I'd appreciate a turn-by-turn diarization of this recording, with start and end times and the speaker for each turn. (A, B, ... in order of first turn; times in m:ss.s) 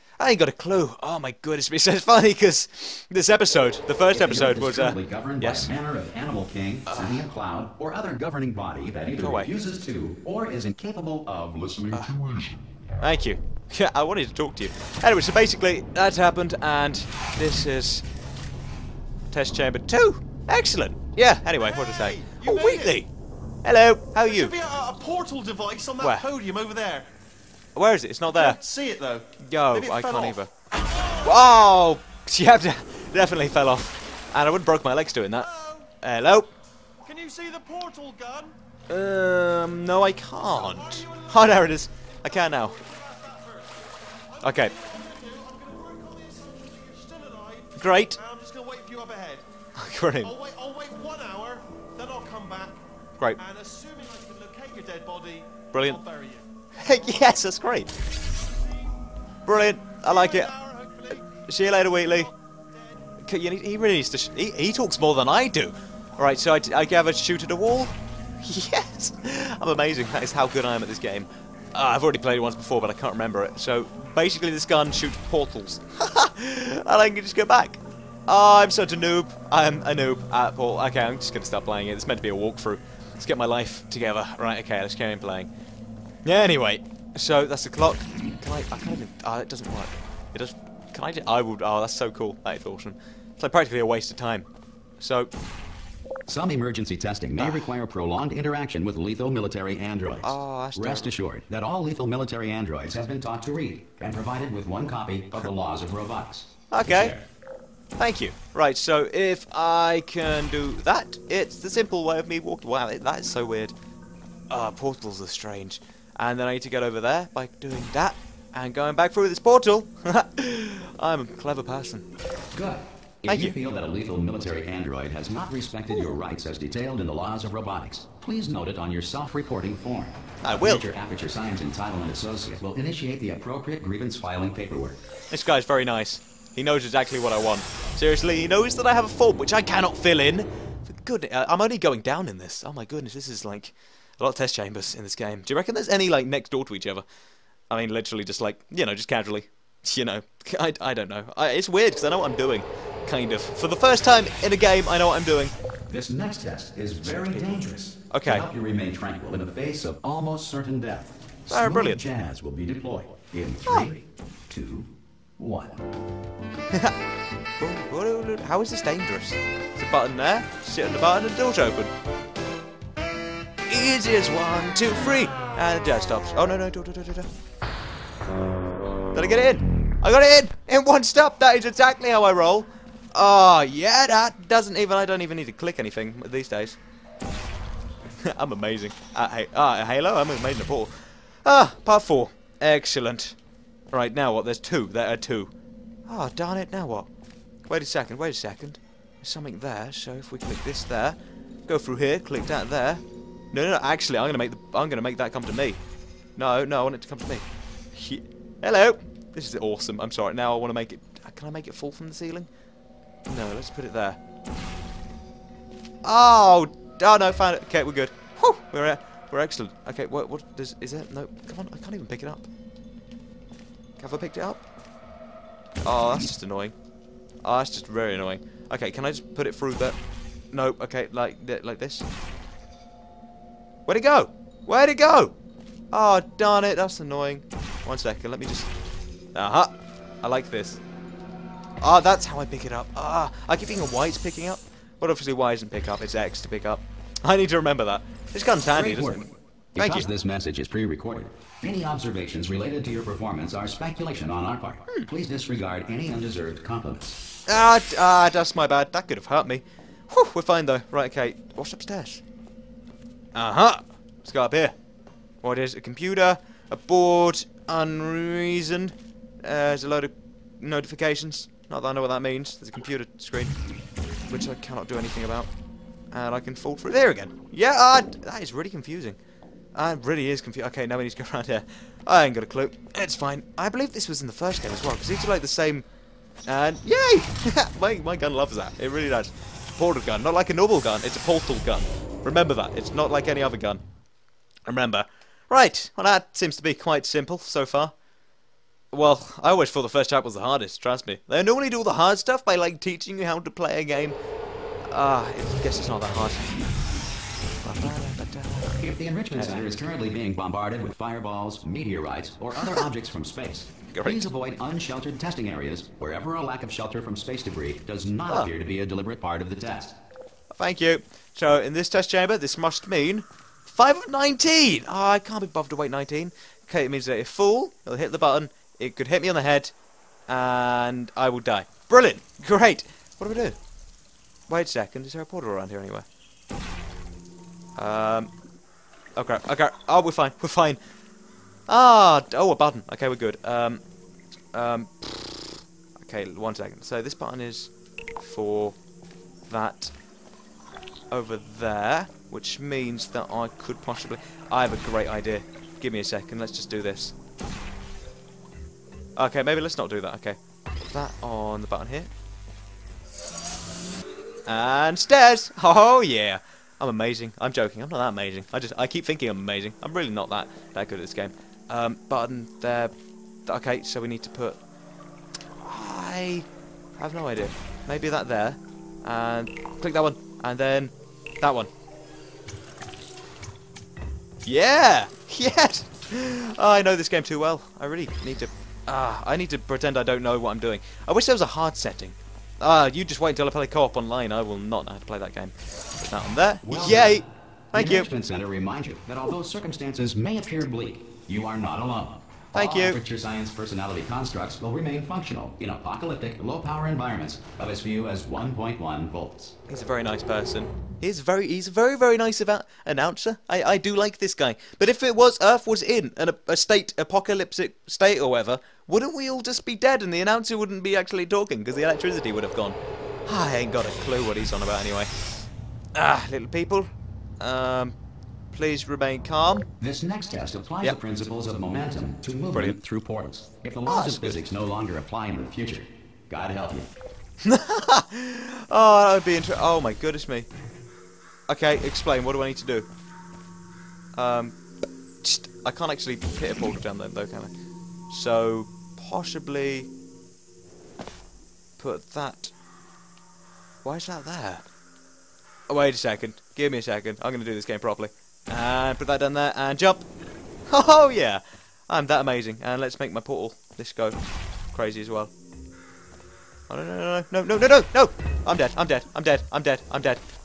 0:00.2-0:05.7 A
0:04.1-0:12.6 B
0:06.8-0:07.2 A
0:09.2-0:09.5 A
0:13.0-0:18.0 A
0:19.3-0:23.1 A
0:21.7-0:23.0 C
0:23.6-0:24.5 A
0:24.2-0:27.1 C
0:26.0-0:26.3 A
0:27.7-0:28.6 A
0:28.3-0:30.4 C
0:29.4-0:36.5 A
0:30.9-0:31.2 C
0:35.6-0:35.8 C
0:37.0-0:38.5 C
0:38.9-0:42.8 A
0:40.5-0:41.3 C
0:42.7-0:43.8 C
0:44.3-0:49.4 C
0:44.4-0:44.7 A
0:47.8-0:48.2 A
0:49.8-0:50.3 A
0:50.2-0:52.8 C
0:53.4-0:56.4 C
0:55.7-0:56.0 A
0:56.8-0:57.9 A
0:59.4-1:00.6 A
1:00.0-1:02.2 C
1:01.1-1:02.3 A
1:03.2-1:25.5 A
1:26.2-1:34.4 A
1:35.0-1:35.3 A
1:36.3-1:47.2 B
1:37.4-1:37.7 A
1:40.2-1:41.1 A
1:46.7-1:47.2 A
1:48.0-1:53.7 A
1:54.5-2:02.1 A
2:02.5-2:15.0 B
2:03.3-2:03.6 A
2:10.4-2:10.9 A
2:15.3-2:27.0 A
2:27.7-2:35.5 A
2:35.9-2:45.8 B
2:38.1-2:38.5 A
2:41.5-2:42.0 A
2:43.6-2:43.9 A
2:47.6-2:51.9 A
2:53.7-2:57.3 A
2:59.1-3:06.8 A
3:08.2-3:13.4 A
3:13.9-3:15.5 A
3:16.1-3:17.1 A
3:17.6-3:25.8 A
3:26.4-3:32.5 A
3:33.3-3:34.2 A
3:36.0-3:42.5 A
3:44.0-3:44.6 A
3:45.8-3:46.7 A
3:47.4-3:50.0 A
3:50.5-3:52.0 A
3:53.8-3:55.3 A
3:55.9-3:58.7 A
3:59.3-4:00.8 A
4:01.8-4:09.2 A
4:08.7-4:17.2 B
4:09.8-4:10.0 A
4:17.5-4:22.2 A
4:23.3-4:24.7 A
4:25.4-4:33.6 A
4:34.3-4:35.5 A
4:36.1-4:39.2 A
4:39.7-4:45.8 A
4:46.4-4:53.8 A
4:54.7-4:57.9 A
4:58.9-5:04.2 A
5:04.9-5:06.5 A
5:07.6-5:08.8 A
5:08.8-5:20.0 B
5:09.3-5:09.8 A
5:13.9-5:14.2 A
5:20.5-5:29.7 A
5:30.3-5:33.6 A
5:34.5-5:36.0 A
5:37.8-5:38.3 A
5:39.2-5:40.8 A
5:41.7-5:43.8 A
5:44.5-5:48.8 A
5:49.5-5:49.9 A
5:51.1-5:57.1 A
5:59.2-6:00.4 A
6:00.9-6:02.1 A
6:04.4-6:12.9 A
6:13.4-6:14.6 A
6:15.6-6:21.7 A
6:24.4-6:38.1 A
6:36.6-6:49.6 B
6:42.5-6:43.0 A
6:49.7-7:05.3 A
7:05.9-7:06.9 A
7:07.4-7:07.9 A
7:08.5-7:09.7 A
7:09.8-7:16.9 B
7:13.9-7:14.4 A
7:17.4-7:20.5 A
7:21.5-7:22.9 A
7:24.2-7:24.5 A
7:25.2-7:27.5 A
7:28.1-7:29.9 A
7:31.8-7:32.5 A
7:33.8-7:34.6 A
7:35.7-7:40.0 A
7:40.7-7:44.2 A
7:44.7-7:45.3 A
7:46.7-7:50.2 A